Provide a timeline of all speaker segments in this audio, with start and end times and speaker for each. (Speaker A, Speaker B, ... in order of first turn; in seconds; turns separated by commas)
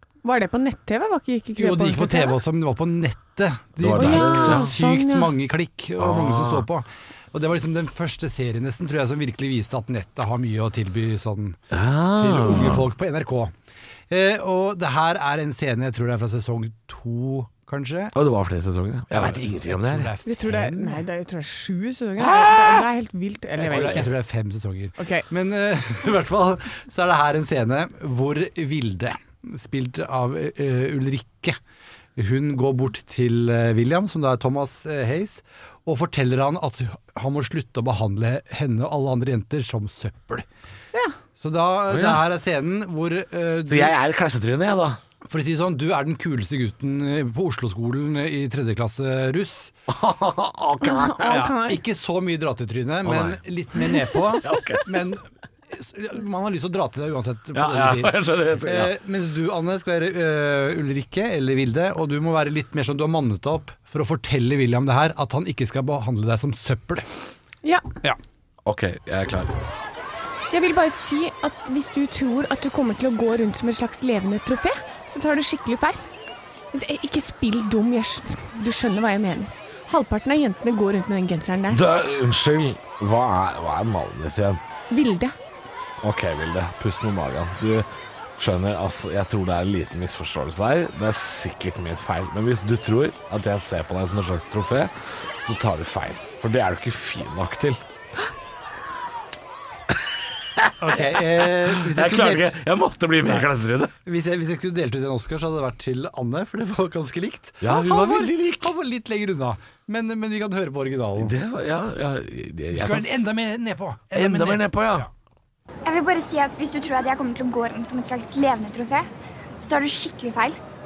Speaker A: 0.2-2.4, Speaker B: 1.6-11.6, Speaker C: 3.8-4.7, Speaker A: 3.9-5.3, Speaker C: 6.0-6.7, Speaker C: 11.7-12.9, Speaker B: 12.2-13.5, Speaker B: 14.1-18.1, Speaker C: 18.1-20.1, Speaker B: 19.1-21.0, Speaker A: 20.2-24.1, Speaker C: 22.2-22.9, Speaker B: 23.6-31.6, Speaker C: 23.6-24.1, Speaker A: 25.0-25.2, Speaker B: 32.2-40.5, Speaker B: 41.4-43.9, Speaker C: 41.9-42.2, Speaker C: 43.7-45.0, Speaker B: 45.2-49.7, Speaker C: 49.9-51.5, Speaker A: 50.8-51.8, Speaker B: 51.2-67.1, Speaker C: 53.0-53.4, Speaker C: 54.4-54.9, Speaker C: 57.5-58.9, Speaker C: 68.7-69.5, Speaker A: 70.5-76.0, Speaker A: 76.7-81.8, Speaker C: 81.7-84.6, Speaker A: 84.9-85.3, Speaker C: 86.0-87.9, Speaker C: 88.4-97.8, Speaker C: 100.6-103.9, Speaker B: 100.8-102.5, Speaker B: 104.0-111.3, Speaker C: 107.6-108.7, Speaker C: 111.2-113.3, Speaker B: 112.7-115.1, Speaker C: 114.2-115.1, Speaker D: 115.8-120.6